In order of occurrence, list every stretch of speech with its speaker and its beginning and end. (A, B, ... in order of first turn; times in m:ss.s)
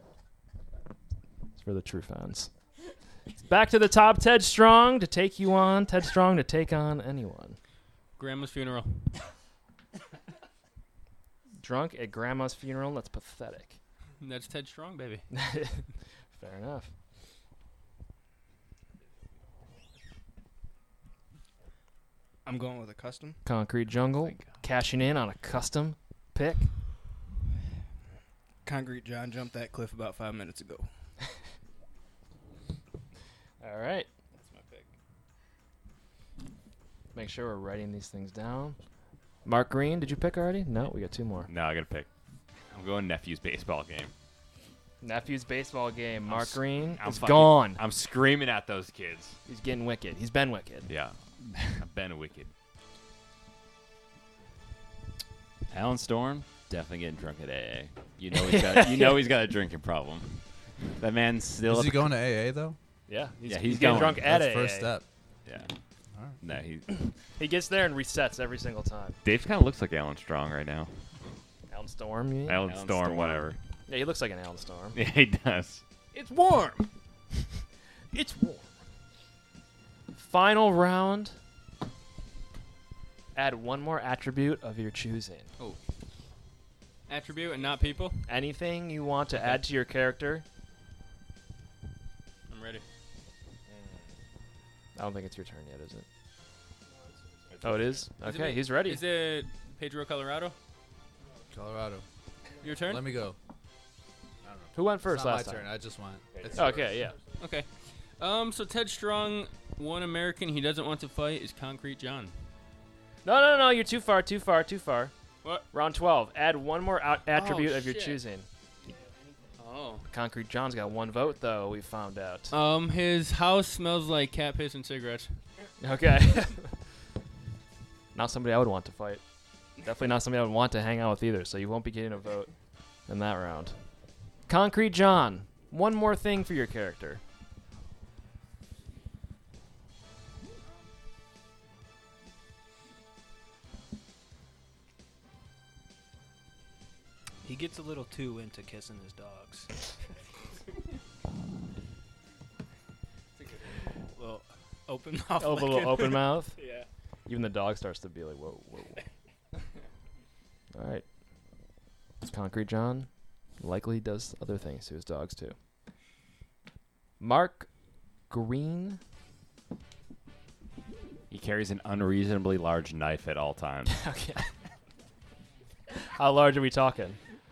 0:01.6-0:02.5 A
0:03.4-0:07.6 A
0:08.2-0:09.1 B
0:11.6-0:13.8 A
0:14.2-0:15.3 B
0:15.3-0:15.8 A
0:16.4-0:16.9 A
0:22.4-0:23.4 C
0:23.4-0:26.7 A
0:28.6-0:30.9 C
0:33.6-0:34.1 A
0:34.4-0:34.9 C
0:37.2-0:38.8 A
0:39.4-0:41.5 A
0:41.5-0:42.1 D
0:42.7-0:44.1 D
0:45.0-0:47.8 A
0:46.3-0:49.4 D
0:49.5-0:50.9 A
0:50.9-0:52.5 D
0:55.7-1:00.4 D
0:58.3-0:59.3 A
1:01.0-1:02.2 D
1:01.6-1:02.8 E
1:03.1-1:04.9 A
1:03.4-1:04.3 D
1:03.9-1:05.0 E
1:06.1-1:06.4 E
1:06.4-1:07.0 D
1:07.0-1:09.2 A
1:09.2-1:10.9 D
1:11.7-1:13.2 A
1:12.5-1:13.6 D
1:13.9-1:15.0 A
1:14.9-1:15.8 D
1:16.1-1:16.9 B
1:18.1-1:18.7 A
1:20.2-1:21.4 A
1:23.4-1:25.5 A
1:27.1-1:28.3 B
1:28.3-1:30.4 A
1:32.5-1:32.8 B
1:35.0-1:36.1 A
1:37.5-1:37.9 D
1:37.6-1:39.0 A
1:38.2-1:40.6 B
1:41.5-1:42.0 E
1:42.6-1:43.1 B
1:42.8-1:43.4 E
1:44.4-1:47.0 E
1:44.7-1:45.7 A
1:46.4-1:46.6 D
1:46.5-1:47.2 A
1:47.4-1:52.3 B
1:53.2-1:55.1 A
1:55.7-1:58.5 A
1:57.3-1:58.2 B
1:59.6-2:00.0 B
2:00.1-2:02.5 A
2:02.5-2:05.4 B
2:05.8-2:06.8 A
2:08.2-2:09.2 A
2:09.8-2:12.5 A
2:13.1-2:13.8 A
2:14.5-2:17.2 A
2:27.4-2:29.7 C
2:34.1-2:36.9 C
2:35.4-2:36.6 A
2:37.3-2:39.0 A
2:40.7-2:41.0 A
2:42.2-2:43.1 A
2:43.6-2:45.6 A
2:47.2-2:47.7 A
2:48.3-2:49.0 A
2:51.3-2:54.0 D
2:53.9-2:54.5 A
2:55.9-2:57.2 A